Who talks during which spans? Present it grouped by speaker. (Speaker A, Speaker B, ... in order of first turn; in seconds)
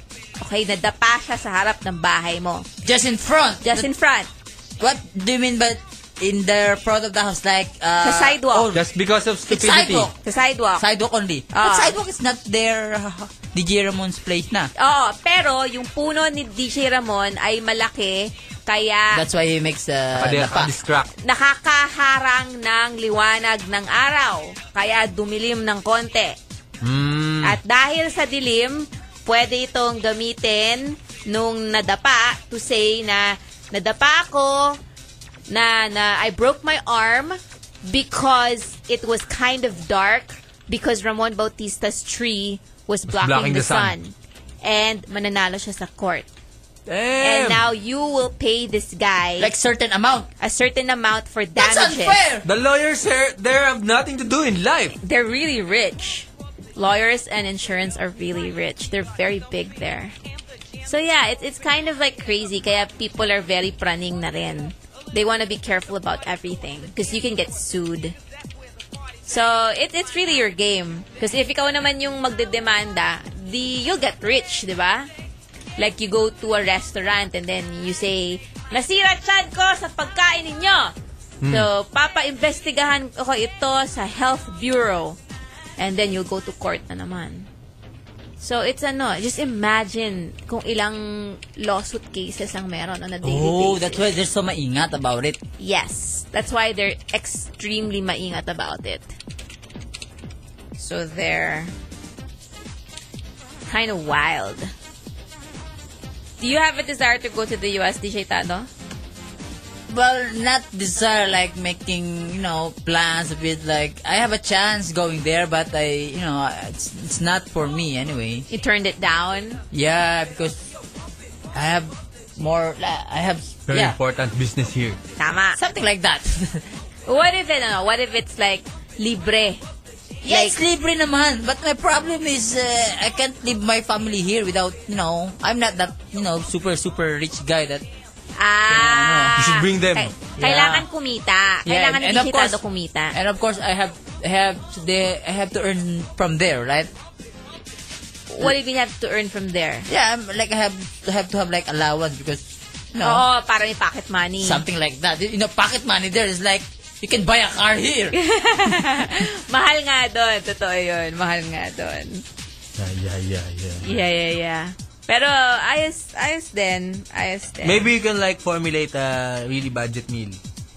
Speaker A: 0.4-2.7, 3.6-4.3, 8.0-8.7, 10.2-10.8, 11.5-11.9, 14.8-19.2, 21.2-26.4, 27.4-34.8, 35.5-46.3, 47.2-49.5, 50.4-52.2, 55.0-60.1, 60.9-68.2, 69.3-75.1, 75.8-80.9, 81.5-85.2, 85.8-87.5, 88.4-94.1, 95.6-99.1, 100.8-101.7, 103.7-104.7, 106.4-108.7, 118.5-119.6, 125.2-125.6, 127.1-129.6, 130.2-130.6, 138.4-143.2, 148.3-149.9, 153.0-154.6, 158.1-162.2, 163.8-167.9
Speaker B: 2.9-3.9, 4.8-8.8, 9.5-10.1, 10.8-14.7, 19.1-20.7, 49.4-50.3, 51.6-52.5, 93.2-95.4, 109.9-118.5, 119.7-120.7, 121.5-124.0, 125.5-126.7, 130.3-137.9, 138.7-139.4, 140.4-140.9, 141.7-142.6, 143.1-146.9, 149.9-153.2, 154.4-158.2
Speaker C: 8.7-10.1, 20.2-21.1, 26.8-27.6, 43.1-43.9, 46.9-47.6, 52.4-55.0, 81.4-81.7, 123.7-125.0, 139.4-140.1, 162.8-164.0, 167.6-170.4